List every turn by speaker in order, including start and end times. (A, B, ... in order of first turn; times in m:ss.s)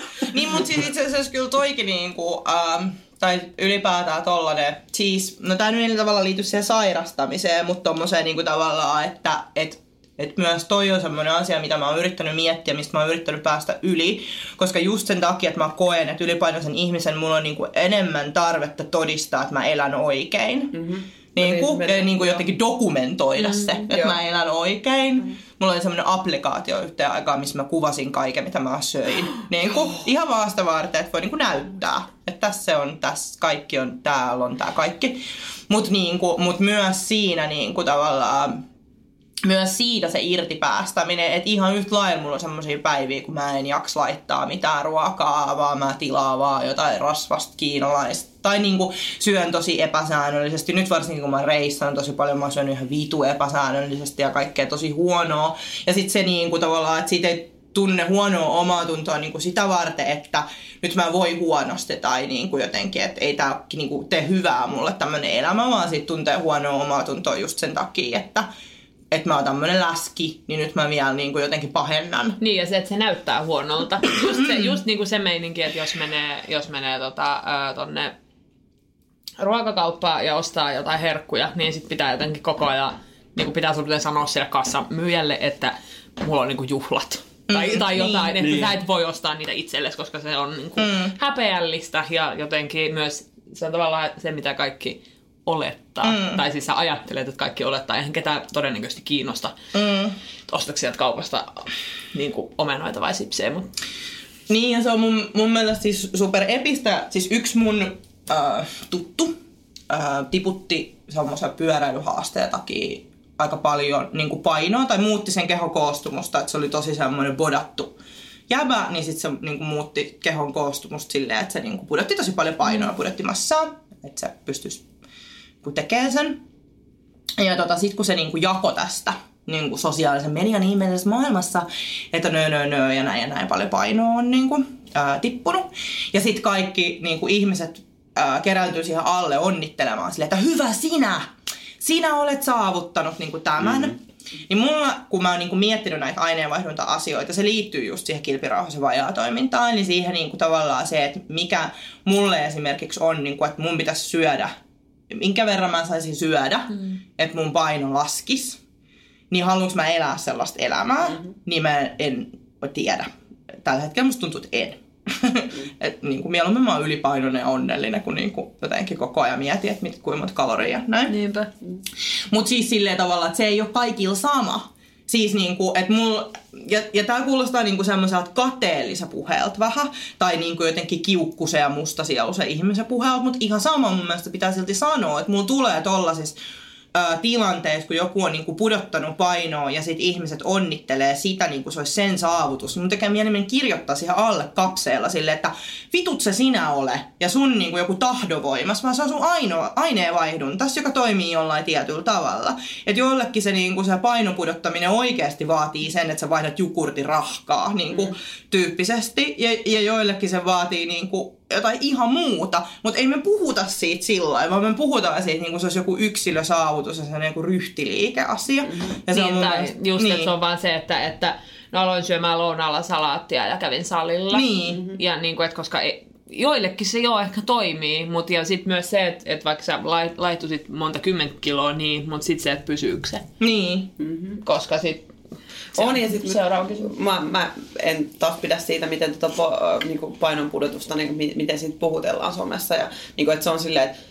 0:00.3-0:20.8 A
0:20.7-0:22.4 B
0:21.3-0:38.6 A
0:23.9-0:24.2 B
0:39.4-1:08.5 A
1:09.1-1:12.4 A
1:12.4-1:18.1 C
1:19.4-1:39.5 C
1:27.5-1:28.3 A
1:30.8-1:31.1 A
1:36.0-1:36.4 A
1:39.7-1:40.2 A
1:40.5-1:43.7 C
1:44.5-1:49.3 A
1:49.9-1:57.9 A
1:58.5-2:04.8 A
2:05.6-2:06.4 A
2:07.4-2:21.3 A
2:21.8-2:24.0 A
2:24.5-2:34.5 A
2:35.1-2:38.6 A
2:39.3-2:43.1 A
2:43.6-2:51.1 A
2:51.1-2:51.5 C
2:52.3-3:06.4 A
3:06.9-3:40.3 A
3:39.1-3:53.2 C
3:44.3-3:44.8 A
3:53.4-3:53.9 A
3:54.0-3:54.4 B
3:54.4-3:55.1 C
3:55.7-3:56.9 C
3:55.7-4:03.9 B